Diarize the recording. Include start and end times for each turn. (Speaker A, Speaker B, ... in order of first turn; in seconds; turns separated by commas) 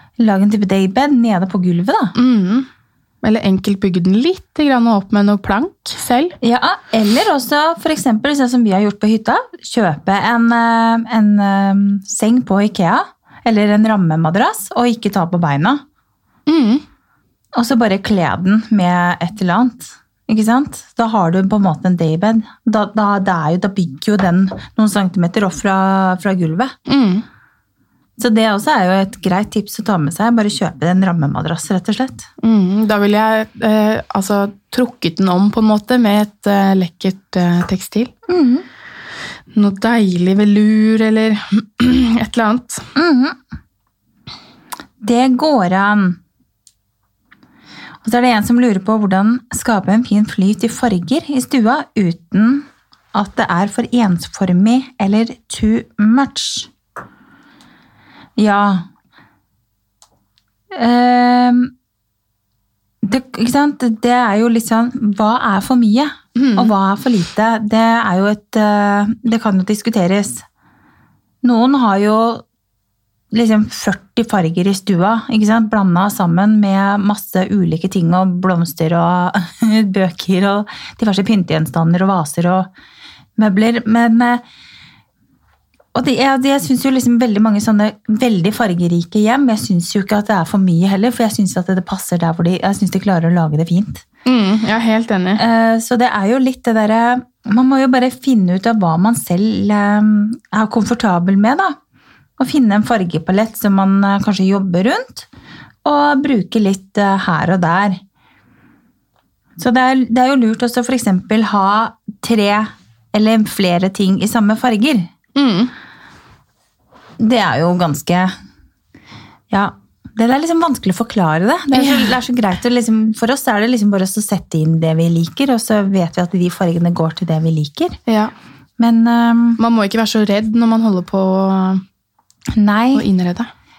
Speaker A: 0.2-2.1, Speaker B: 2.1-2.7, Speaker B: 3.2-6.3, Speaker A: 6.4-15.8, Speaker B: 16.5-16.8, Speaker A: 17.5-26.7, Speaker B: 26.9-27.2, Speaker A: 28.2-32.2, Speaker B: 32.4-38.1, Speaker A: 38.3-38.6, Speaker B: 39.5-42.9, Speaker A: 42.9-43.4, Speaker A: 45.0-46.2, Speaker A: 48.0-56.7, Speaker A: 58.4-58.9, Speaker A: 60.7-61.7, Speaker A: 63.0-70.4, Speaker B: 66.3-66.7, Speaker A: 71.4-72.4, Speaker A: 73.3-82.7, Speaker A: 83.4-84.4, Speaker A: 85.9-94.0, Speaker B: 94.2-95.4, Speaker A: 95.4-101.8, Speaker A: 102.4-105.3, Speaker A: 105.8-108.0, Speaker A: 109.6-115.1, Speaker B: 115.3-115.7, Speaker A: 117.2-118.3, Speaker A: 119.5-128.0, Speaker B: 121.7-122.2, Speaker B: 128.1-128.3, Speaker A: 128.8-129.6, Speaker B: 129.6-131.8, Speaker A: 132.5-133.1, Speaker B: 132.9-133.5